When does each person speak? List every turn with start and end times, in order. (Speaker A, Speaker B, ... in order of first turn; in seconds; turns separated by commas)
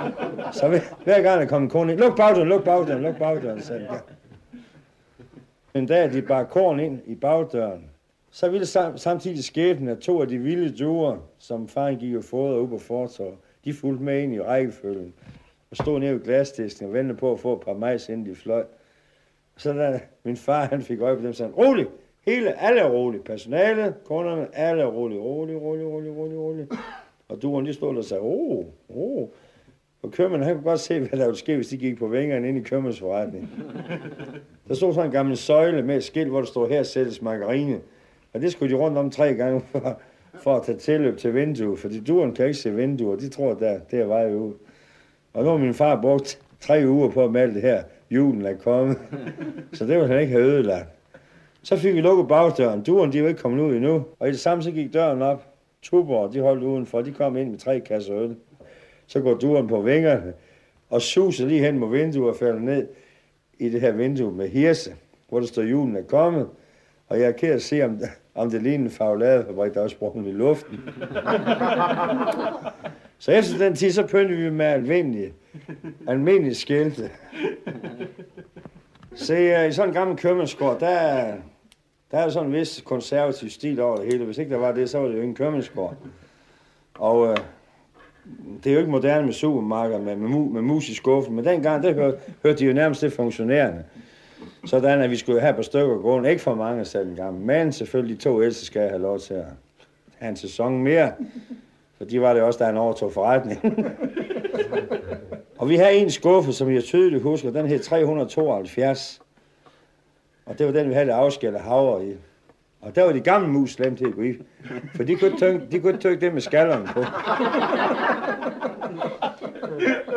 Speaker A: 0.5-4.0, Speaker A: 5.7-15.2, Speaker A: 15.7-18.7, Speaker A: 19.6-26.7, Speaker A: 27.3-29.3, Speaker A: 30.0-33.6, Speaker A: 34.6-44.6, Speaker A: 45.3-50.9, Speaker A: 51.6-58.4, Speaker A: 59.1-60.4, Speaker A: 60.9-62.9, Speaker A: 63.6-66.5, Speaker A: 67.1-71.0, Speaker A: 73.2-75.3, Speaker A: 76.0-77.1, Speaker A: 79.1-81.5, Speaker A: 82.1-86.0, Speaker A: 87.0-87.5, Speaker A: 88.2-93.9, Speaker A: 94.6-99.6, Speaker A: 100.2-101.2, Speaker A: 102.0-104.1, Speaker A: 105.6-109.2, Speaker A: 110.5-112.2, Speaker A: 112.8-117.3